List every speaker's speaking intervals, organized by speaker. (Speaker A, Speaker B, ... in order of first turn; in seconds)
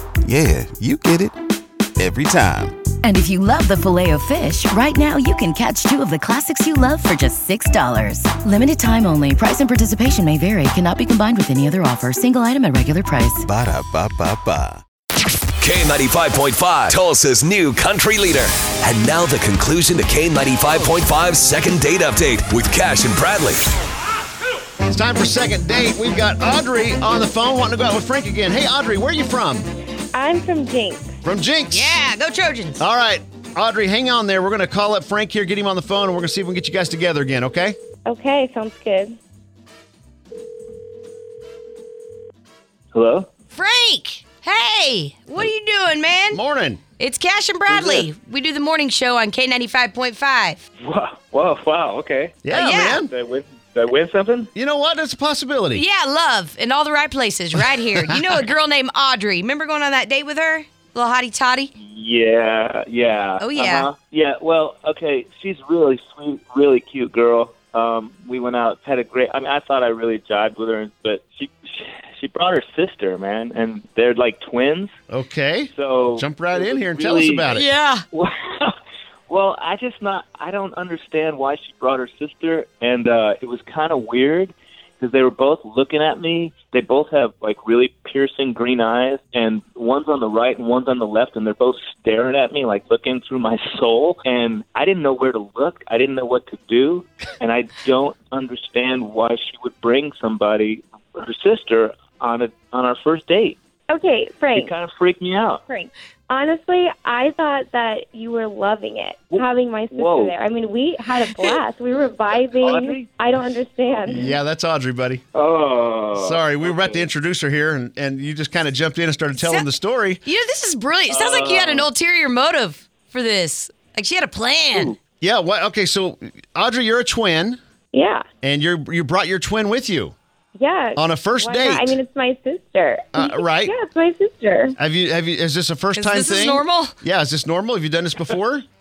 Speaker A: 0.2-1.4, 2.0-2.8, 13.4-14.8
Speaker B: 3.0-13.5
Speaker C: 15.6-23.6
Speaker D: 24.9-29.7, 31.2-32.0, 32.8-37.8, 46.3-46.8, 52.4-53.1, 54.5-55.9, 57.8-58.5, 75.1-77.7, 114.1-115.2, 116.2-120.2, 125.2-127.6, 128.4-130.2, 131.0-132.0, 133.1-133.8, 134.8-138.7
Speaker E: 30.1-31.2, 38.0-39.2, 103.9-104.7, 105.7-114.4, 127.9-128.2, 130.6-134.8
Speaker F: 31.7-32.8, 43.5-46.4, 47.0-50.6, 52.5-53.0, 55.8-61.7, 63.4-63.9, 77.5-78.0, 119.3-119.7, 120.2-124.9, 135.9-136.9
Speaker G: 42.9-43.3, 47.7-48.1, 50.8-52.4, 53.0-54.5, 61.8-74.9, 75.7-77.6, 78.2-78.8, 79.3-103.6, 104.6-105.6, 110.0-110.3, 112.6-113.1, 115.3-117.1, 121.1-121.9